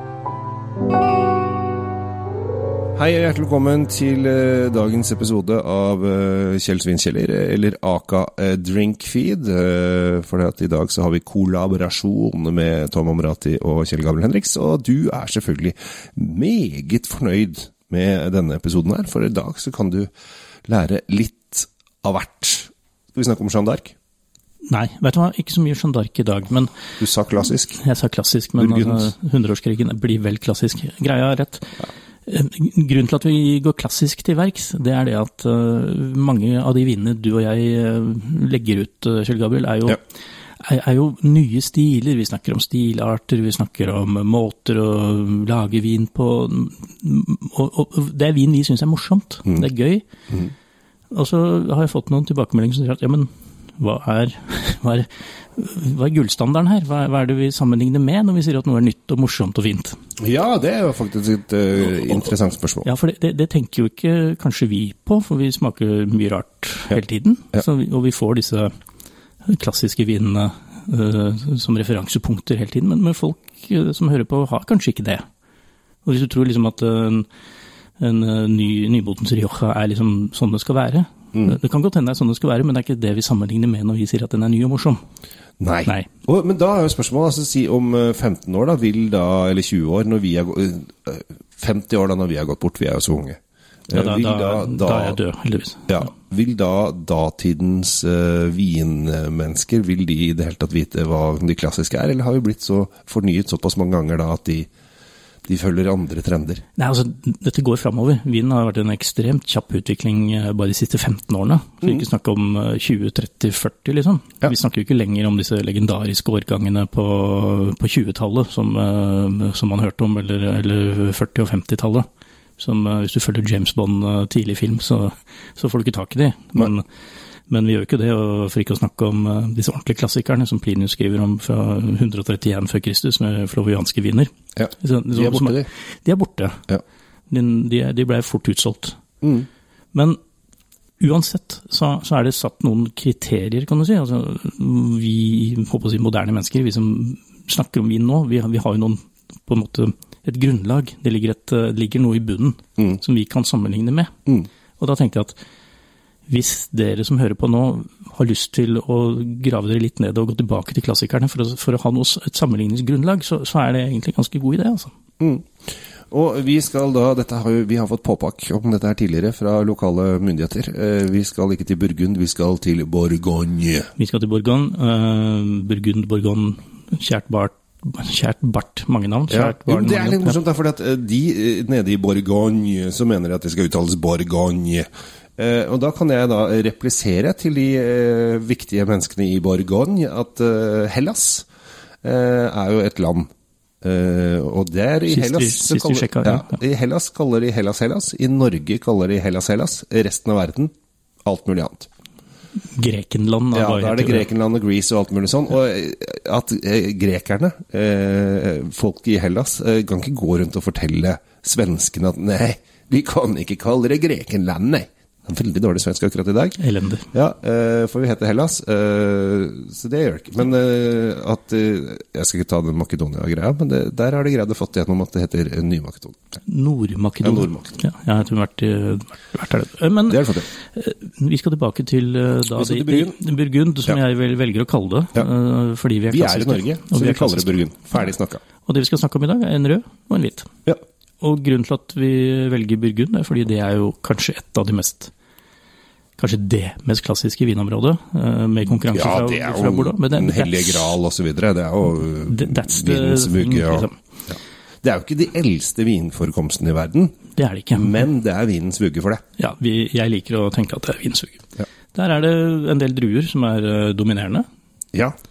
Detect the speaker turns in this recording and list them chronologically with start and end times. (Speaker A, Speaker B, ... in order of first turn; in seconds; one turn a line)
Speaker A: 3.0-20.1
Speaker A: 20.7-23.9
Speaker B: 24.6-26.7
Speaker A: 27.0-27.8
Speaker B: 27.8-31.7
Speaker A: 28.6-29.1
Speaker B: 32.3-40.0
Speaker B: 40.6-50.0
Speaker B: 51.1-60.0
Speaker A: 60.2-62.9
Speaker B: 62.9-68.7
Speaker B: 69.4-75.3
Speaker B: 76.0-77.3
Speaker B: 78.0-85.0
Speaker A: 85.6-95.2
Speaker B: 93.9-96.1
Speaker A: 95.9-104.7
Speaker A: 105.5-106.6
Speaker B: 106.8-126.9
Speaker B: 127.5-136.6
Speaker A: 134.6-135.7
Speaker B: 137.3-139.0
Speaker A: 139.2-139.5
Speaker B: 139.9-140.2
Speaker B: 141.0-154.2
Speaker B: 154.8-155.4
Speaker B: 156.3-164.9
Speaker A: 165.2-165.5
Speaker A: 166.1-173.9
Speaker B: 174.0-180.4
Speaker A: 179.3-191.5
Speaker A: 192.0-193.3
Speaker A: 193.8-200.7
Speaker B: 195.1-196.6
Speaker A: 201.2-201.9
Speaker B: 202.7-204.3
Speaker A: 203.5-216.6
Speaker B: 216.6-217.1
Speaker A: 217.1-226.4
Speaker B: 226.5-238.1
Speaker A: 227.2-227.8
Speaker A: 230.1-230.5
Speaker A: 232.6-233.2
Speaker A: 236.1-238.4
Speaker B: 238.7-240.5
Speaker B: 241.2-245.1
Speaker B: 246.2-251.0
Speaker A: 248.9-257.2
Speaker B: 252.3-254.0
Speaker B: 257.4-258.0
Speaker A: 257.8-259.2
Speaker B: 259.4-264.5